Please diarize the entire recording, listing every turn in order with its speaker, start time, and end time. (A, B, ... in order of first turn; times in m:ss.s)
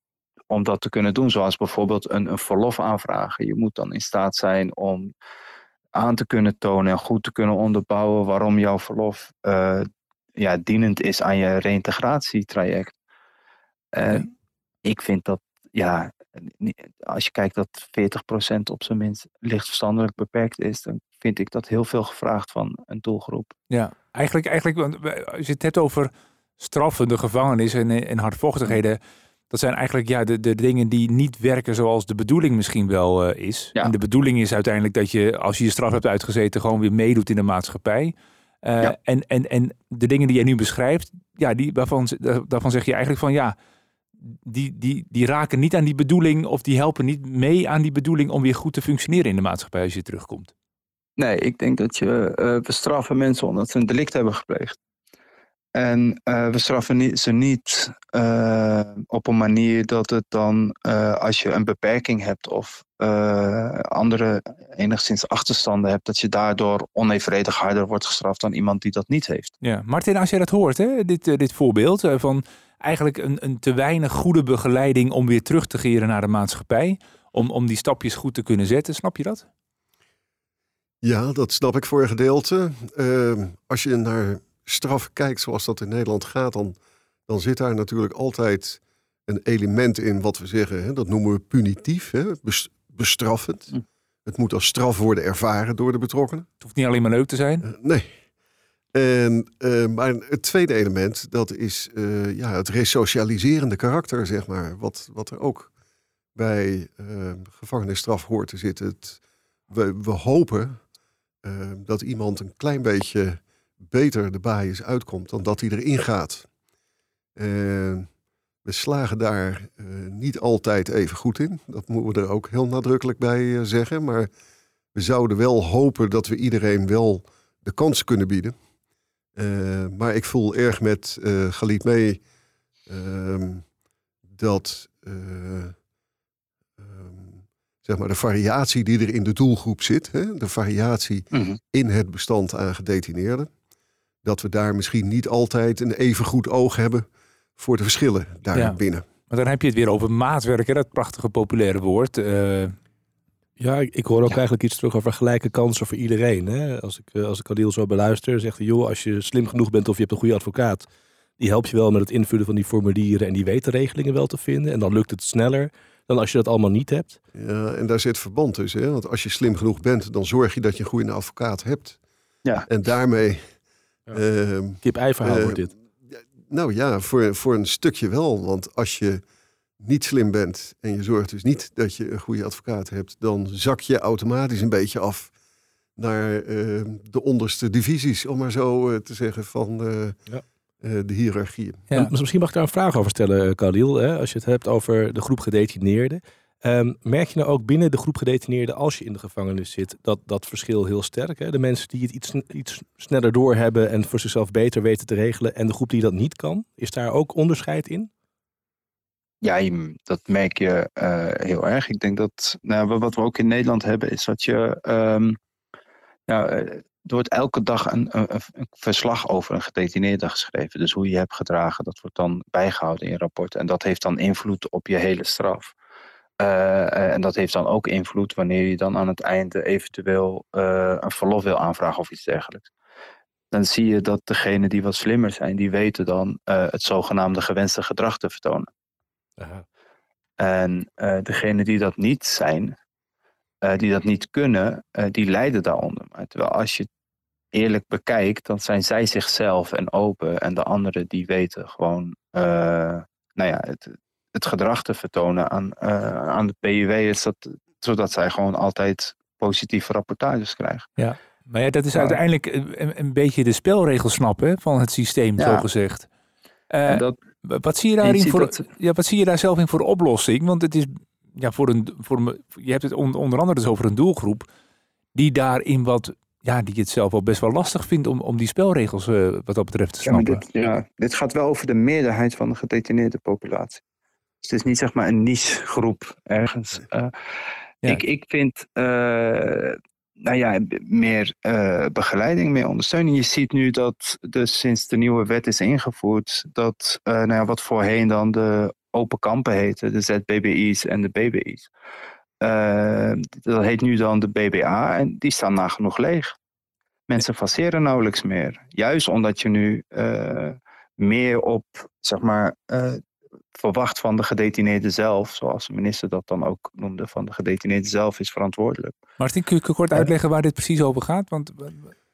0:00.5-0:05.1 A
0:05.9-0:12.9 A
0:13.9-0:14.3 A
0:14.8-0:23.5 A
0:23.7-0:29.0 B
0:29.5-0:43.5 B
0:44.2-0:50.5 B
0:51.2-0:54.8 A
0:55.7-1:09.5 A
1:09.6-1:19.4 B
1:21.0-1:33.7 C
1:34.2-1:36.5 C
1:36.6-1:37.6 B
1:37.6-1:38.1 C
1:38.9-1:45.7 C
1:46.3-1:50.8 C
1:51.4-1:56.5 C
1:57.4-1:58.1 C
1:58.6-2:04.3 C
2:04.9-2:08.5 C
2:09.4-2:12.2 C
2:12.9-2:13.6 C
2:14.3-2:15.7 C
2:16.8-2:23.5 C
2:21.3-2:21.6 A
2:24.2-2:29.0 C
2:29.3-2:32.7 B
2:33.6-2:40.9 D
2:41.4-2:47.2 D
2:47.3-2:52.0 C
2:52.7-2:53.4 C
2:54.1-2:59.2 C
2:54.8-2:55.7 D
2:59.8-3:05.3 C
3:06.0-3:10.2 C
3:10.8-3:11.9 C
3:11.9-3:28.1 D
3:29.4-3:35.4 A
3:36.3-3:45.7 A
3:46.4-3:52.7 A
3:53.5-3:58.7 A
3:59.4-3:59.6 D
4:00.4-4:02.8 A
4:03.6-4:06.9 A
4:07.5-4:20.9 A
4:21.0-4:26.1 B
4:21.9-4:22.2 A
4:25.4-4:25.6 A
4:26.7-4:34.5 B
4:26.8-4:27.1 A
4:28.0-4:28.6 A
4:35.1-4:40.4 B
4:40.0-4:43.8 A
4:44.4-4:47.1 A
4:47.8-5:01.7 A
5:02.4-5:06.3 A
5:07.1-5:13.0 A
5:13.5-5:18.9 A
5:19.2-5:21.9 B